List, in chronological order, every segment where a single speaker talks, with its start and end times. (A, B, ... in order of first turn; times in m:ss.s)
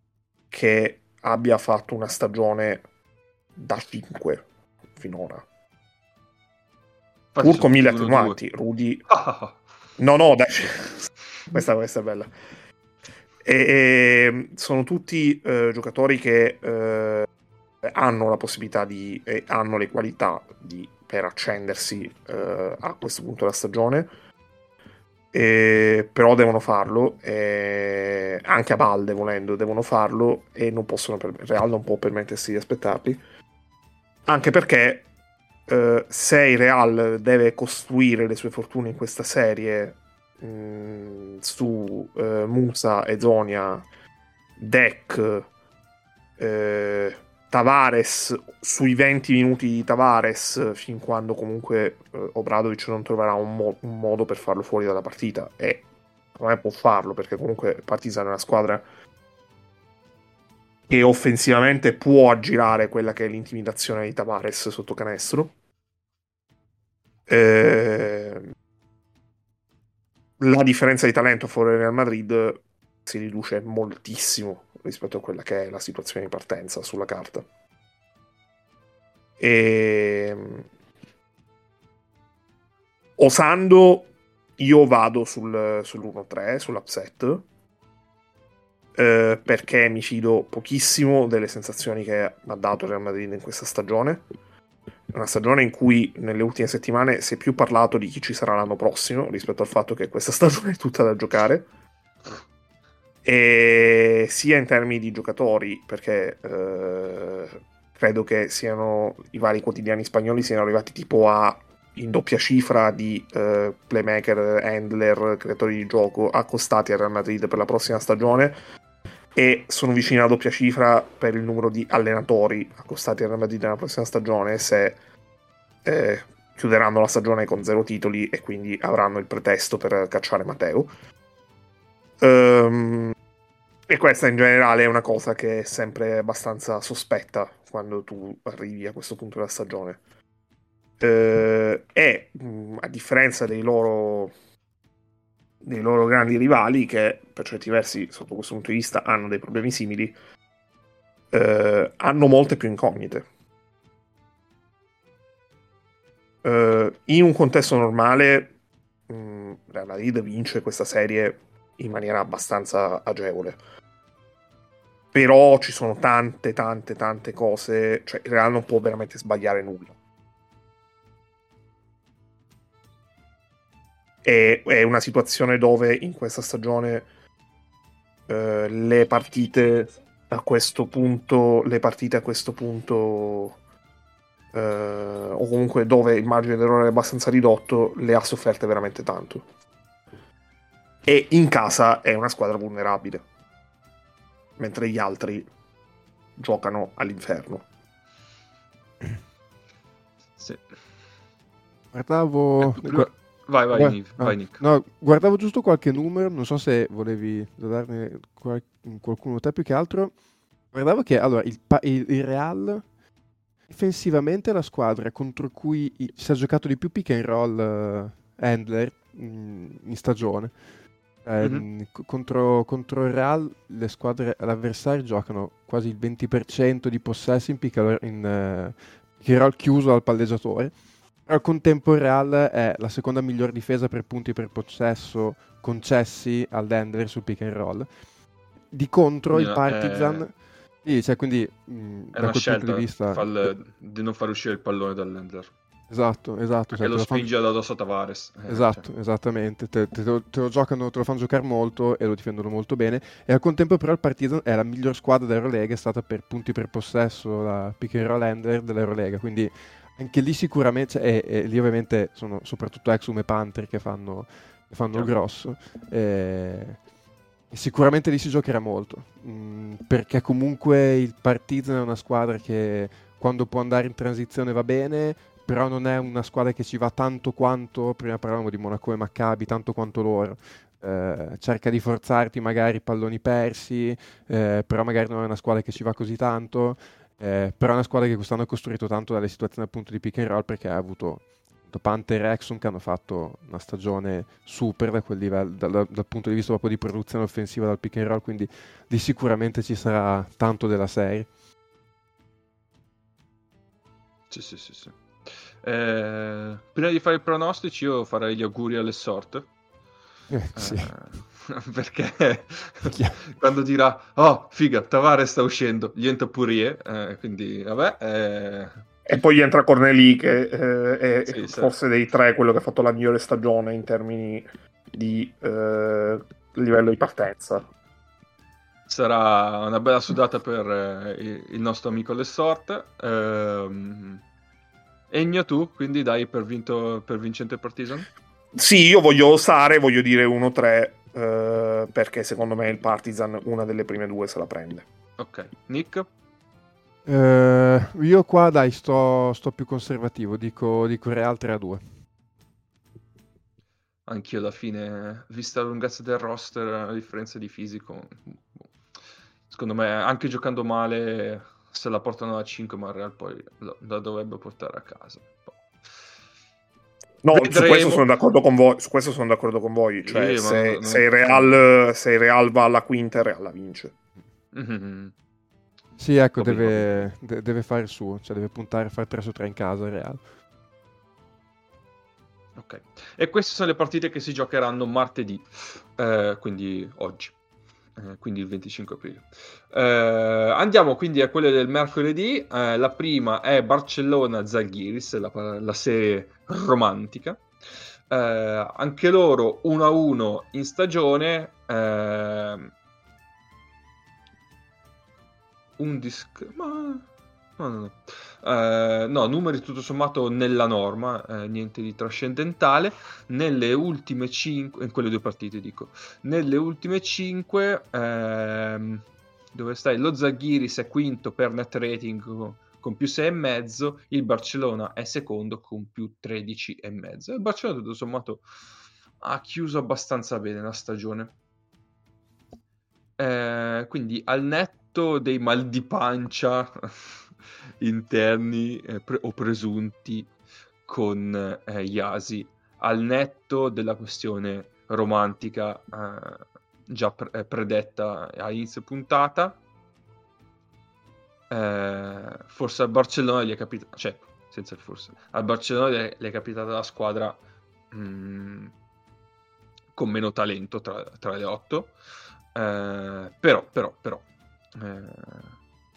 0:00.5-0:02.8 A
0:03.6-0:05.4 A
0:07.3-0:08.4 B
0:07.4-0:09.0 A
0:09.1-0:09.6 B
0:10.0-0:12.3 A
0:13.4-0:17.3 A
0:17.8-0:24.1 A
0:25.3-0:33.2 A
0:34.3-0:35.0 A
0:35.7-0:43.8 A
0:44.6-0:45.5 A
0:46.4-0:55.8 A
0:56.4-0:58.8 A
1:00.9-1:05.5 A
1:07.3-1:08.5 A
1:10.4-1:17.4 A
1:19.4-1:20.7 A
1:23.2-1:27.4 A
1:29.0-1:34.2 A
1:35.1-1:41.7 A
1:43.2-1:58.6 A
1:59.3-2:05.0 A
2:05.8-2:10.9 A
2:12.2-2:13.1 A
2:13.9-2:20.0 A
2:21.0-2:24.3 A
2:25.6-2:30.1 A
2:31.3-2:33.2 A
2:36.4-2:38.5 A
2:39.1-2:43.6 A
2:45.1-2:49.9 A
2:54.2-2:57.1 A
2:58.3-3:03.6 A
3:04.5-3:09.4 A
3:11.0-3:13.2 A
3:14.6-3:15.5 A
3:16.4-3:17.6 A
3:20.4-3:20.8 B
3:21.9-3:23.1 C
3:22.6-3:24.6 B
3:23.7-3:30.1 C
3:30.7-3:32.8 C
3:33.7-3:40.5 C
3:41.2-3:50.7 C
3:41.4-3:41.6 B
3:51.2-3:57.9 C
3:58.7-4:03.5 C
3:59.3-4:00.2 B
4:02.1-4:05.5 B
4:05.9-4:07.3 C
4:06.7-4:08.8 B
4:08.5-4:26.8 C
4:27.5-5:01.3 C
5:04.3-5:09.5 B
5:10.3-5:10.9 C
5:10.5-5:18.8 B
5:12.9-5:13.2 C
5:19.1-5:27.6 A
5:21.3-5:21.7 B
5:28.9-5:34.2 B
5:35.1-5:38.1 B
5:38.5-5:44.8 A
5:45.2-5:46.1 B
5:47.0-5:51.8 C
5:54.1-5:58.7 B
5:59.5-6:05.5 B
6:07.2-6:13.9 A
6:07.3-6:08.0 B
6:10.0-6:11.6 B
6:14.5-6:15.1 B
6:16.0-6:20.2 C
6:16.4-6:17.0 B
6:22.6-6:27.3 B
6:28.0-6:37.4 B
6:38.1-6:42.7 B
6:45.8-6:47.1 B
6:47.6-7:08.4 B
7:09.2-7:11.3 B
7:13.2-7:17.2 B
7:17.8-7:20.3 B
7:20.8-7:29.6 B
7:31.5-7:37.4 B
7:37.9-7:38.7 B
7:39.9-7:41.9 B
7:42.5-7:45.6 B